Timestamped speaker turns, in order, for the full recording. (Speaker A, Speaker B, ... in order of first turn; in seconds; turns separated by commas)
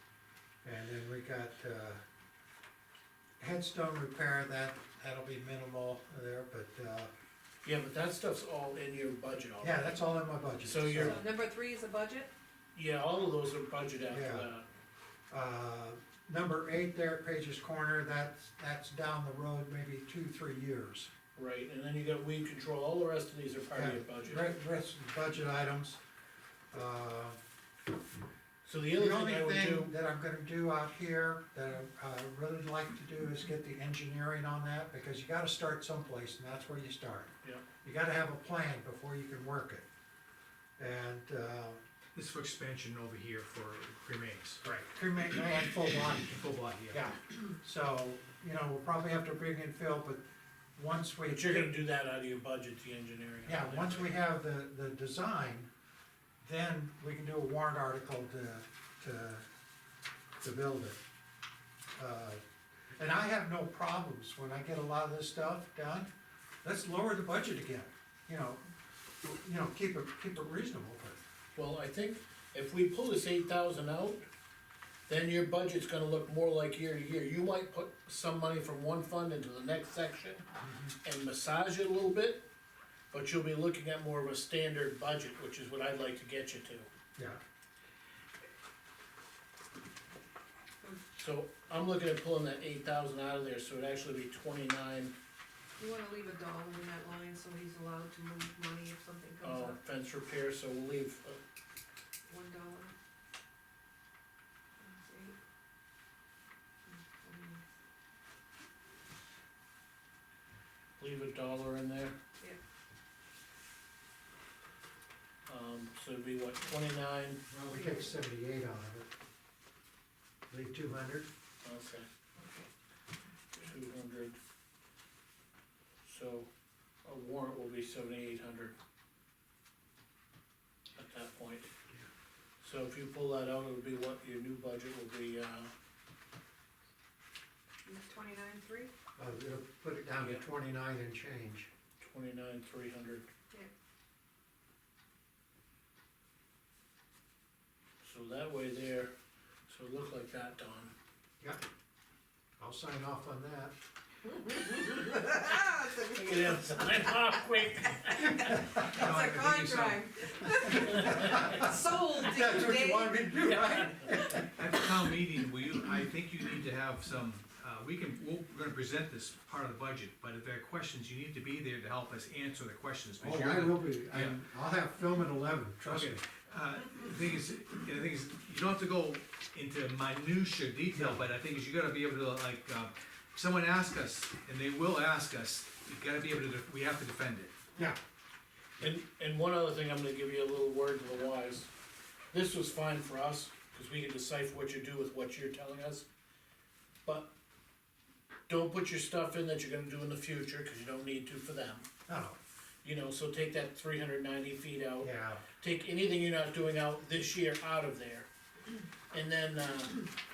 Speaker A: 0.6-2.0, Speaker A: 3.4-7.1, Speaker B: 7.6-9.8, Speaker A: 9.6-11.2, Speaker B: 10.6-11.2, Speaker C: 11.0-12.3, Speaker B: 12.7-14.6, Speaker A: 14.1-14.5, Speaker A: 15.3-21.1, Speaker B: 21.3-24.5, Speaker A: 23.7-26.0, Speaker A: 26.7-27.4, Speaker B: 28.6-29.9, Speaker A: 28.9-39.8, Speaker A: 40.8-41.8, Speaker D: 42.1-44.6, Speaker A: 44.6-46.3, Speaker D: 46.0-47.0, Speaker A: 46.9-50.2, Speaker A: 50.8-51.7, Speaker B: 51.3-54.1, Speaker A: 53.4-55.7, Speaker A: 56.4-59.4, Speaker A: 60.4-61.0, Speaker A: 62.0-62.4, Speaker A: 63.0-66.1, Speaker A: 66.6-68.6, Speaker A: 69.2-71.2, Speaker B: 71.5-74.2, Speaker B: 75.1-80.4, Speaker A: 80.7-80.9, Speaker B: 81.0-82.5, Speaker B: 83.1-86.9, Speaker B: 91.2-95.1, Speaker C: 95.8-99.8, Speaker B: 99.4-101.4, Speaker C: 102.3-102.9, Speaker C: 104.8-105.3, Speaker C: 106.9-107.6, Speaker B: 111.0-112.1, Speaker B: 115.5-117.4, Speaker A: 117.5-119.1, Speaker C: 117.7-118.0, Speaker A: 120.5-121.3, Speaker B: 121.6-122.0, Speaker B: 123.5-124.4, Speaker B: 126.0-126.5, Speaker B: 127.0-128.7, Speaker B: 130.9-131.7, Speaker B: 132.6-135.7, Speaker C: 137.8-138.9, Speaker A: 139.2-141.7, Speaker B: 142.0-143.3, Speaker B: 148.0-149.1, Speaker B: 149.7-150.9, Speaker A: 152.6-153.7, Speaker C: 154.2-157.1, Speaker B: 156.1-158.5, Speaker C: 158.0-163.3, Speaker D: 158.8-160.1, Speaker B: 160.8-161.6, Speaker A: 160.8-164.5, Speaker B: 163.4-164.1, Speaker D: 164.5-174.4, Speaker A: 173.2-176.2, Speaker D: 175.8-187.5, Speaker A: 180.9-181.2, Speaker B: 188.8-191.7, Speaker B: 192.3-196.1, Speaker B: 197.1-197.3, Speaker B: 198.5-201.8, Speaker A: 202.1-202.4, Speaker B: 202.8-208.3, Speaker A: 205.0-205.4, Speaker B: 209.1-210.0